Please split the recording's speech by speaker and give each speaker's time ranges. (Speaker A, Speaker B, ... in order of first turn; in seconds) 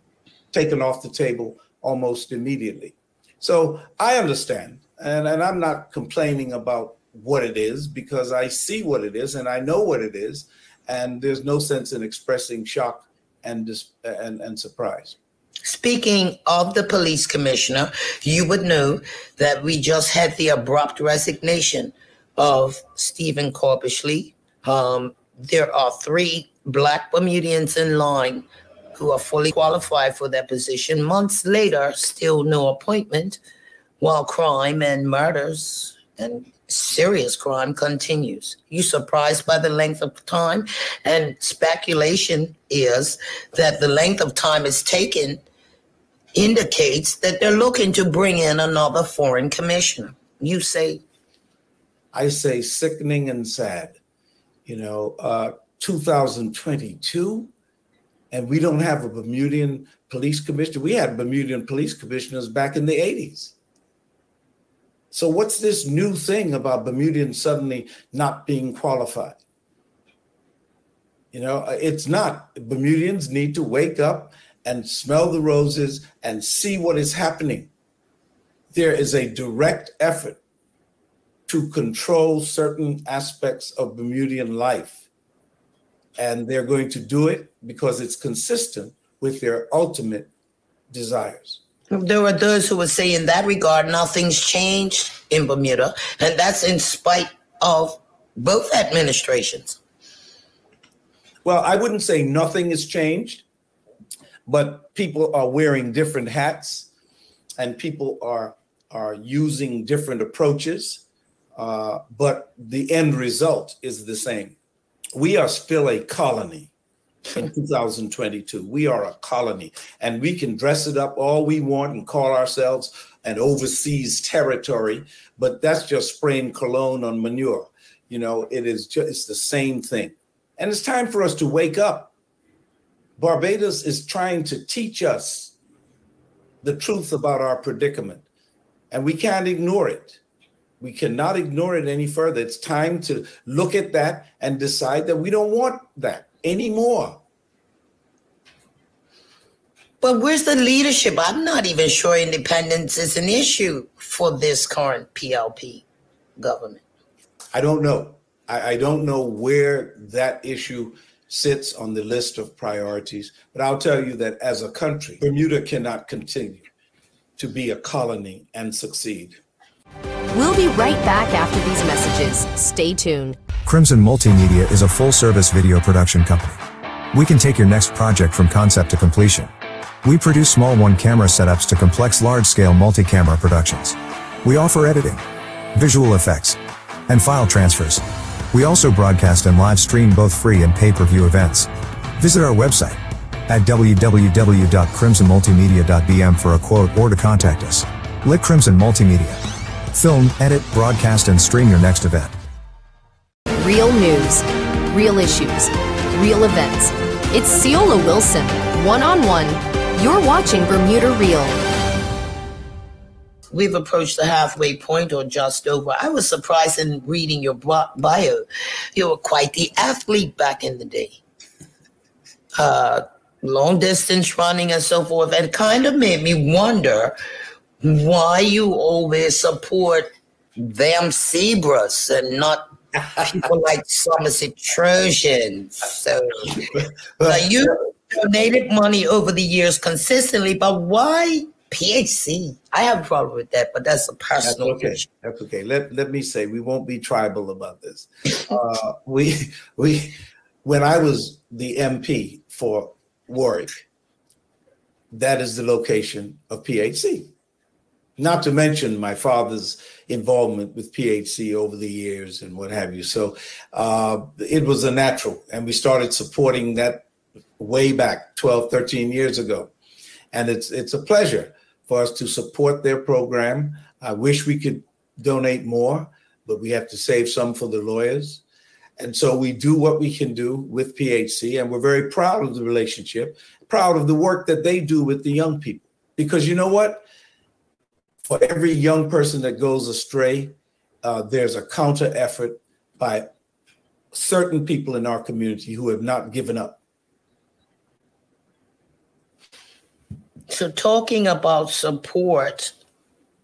Speaker A: 0.5-15.2, 52.1-54.0, 54.7-57.5, 58.3-63.5, 65.1-69.4, 71.3-77.7, 78.7-80.4, 81.5-85.0, 86.2-90.3, 90.9-91.6, 101.4-103.5, 104.5-106.9, 107.6-111.0, 111.6-114.6, 115.1-116.7, 117.3-132.1, 133.2-135.5, 136.6-138.2, 138.9-140.2, 140.8-147.2, 157.5-166.7, 167.4-169.4, 237.2-237.7, 244.4-253.8, 255.1-257.3, 258.2-267.1, 267.6-269.7, 270.3-278.4, 279.0-287.0, 288.2-293.3, 294.1-296.8
Speaker B: 15.7-33.4, 34.0-45.4, 46.4-51.0, 91.9-99.8, 150.0-155.8, 156.4-156.8, 213.5-221.2, 222.6-227.2, 227.8-245.1, 300.5-302.7
Speaker C: 170.3-173.4, 203.6-211.6
Speaker D: 173.6-176.6, 177.1-179.5, 180.0-185.2, 185.8-199.4, 199.9-202.3